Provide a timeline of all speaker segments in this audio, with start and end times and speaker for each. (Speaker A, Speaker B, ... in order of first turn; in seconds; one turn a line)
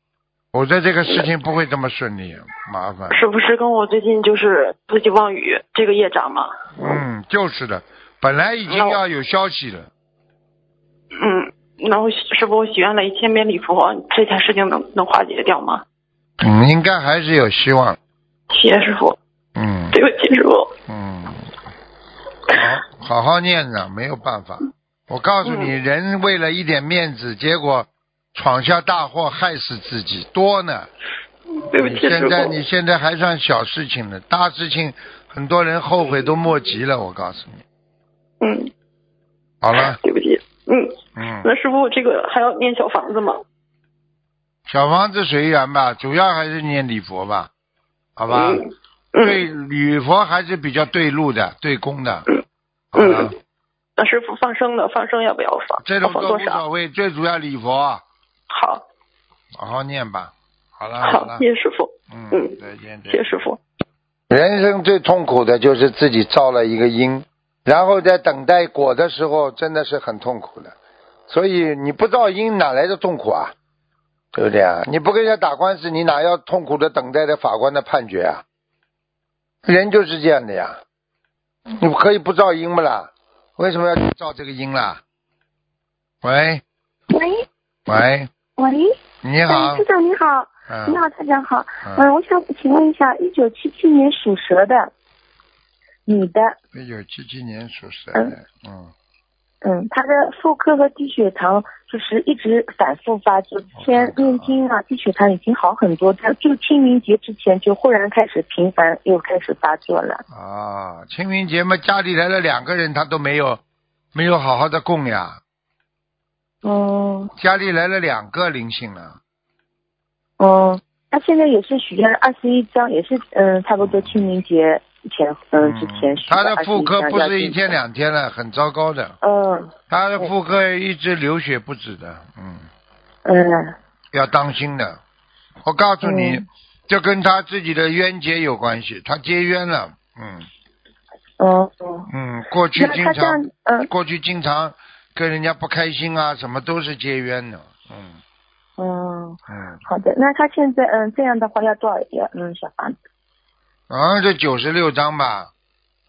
Speaker A: 0.5-3.2
Speaker B: 3.1-7.0
Speaker A: 6.8-9.9
Speaker B: 8.7-9.0
Speaker B: 11.2-15.8
Speaker A: 16.4-18.0
Speaker B: 18.5-19.1
Speaker A: 19.6-20.0
Speaker B: 19.9-20.7
Speaker A: 20.9-21.5
Speaker A: 22.5-30.9
Speaker B: 25.4-25.7
Speaker B: 31.7-32.5
Speaker A: 31.7-37.6
Speaker B: 38.4-38.7
Speaker A: 39.6-40.0
Speaker B: 39.8-43.4
Speaker A: 41.1-41.5
Speaker A: 44.7-47.5
Speaker A: 48.2-48.6
Speaker B: 48.3-49.4
Speaker A: 49.2-52.3
Speaker A: 52.9-53.3
Speaker B: 52.9-53.3
Speaker B: 54.0-56.6
Speaker A: 55.8-58.0
Speaker B: 58.5-58.8
Speaker A: 59.5-61.4
Speaker B: 61.0-62.6
Speaker A: 62.1-63.4
Speaker B: 63.1-63.6
Speaker A: 64.3-70.7
Speaker A: 71.3-73.5
Speaker A: 74.3-78.4
Speaker A: 79.6-80.8
Speaker A: 81.7-85.0
Speaker A: 86.2-86.6
Speaker C: 87.1-87.4
Speaker A: 87.9-88.3
Speaker C: 88.6-88.9
Speaker A: 89.2-89.8
Speaker C: 89.5-94.9
Speaker A: 90.7-91.0
Speaker C: 96.0-96.5
Speaker A: 96.7-98.9
Speaker C: 99.6-110.2
Speaker A: 103.8-104.5
Speaker A: 110.3-113.6
Speaker A: 114.1-115.4
Speaker C: 116.6-117.3
Speaker A: 117.4-119.2
Speaker C: 120.4-127.8
Speaker A: 123.8-124.3
Speaker A: 125.6-129.2
Speaker C: 129.2-130.3
Speaker A: 129.9-132.7
Speaker C: 133.2-133.7
Speaker A: 134.1-135.0
Speaker A: 135.6-140.5
Speaker C: 136.0-136.4
Speaker C: 141.4-142.1
Speaker A: 142.1-148.2
Speaker C: 142.8-143.9
Speaker C: 148.8-152.9
Speaker A: 149.5-149.8
Speaker A: 153.9-155.5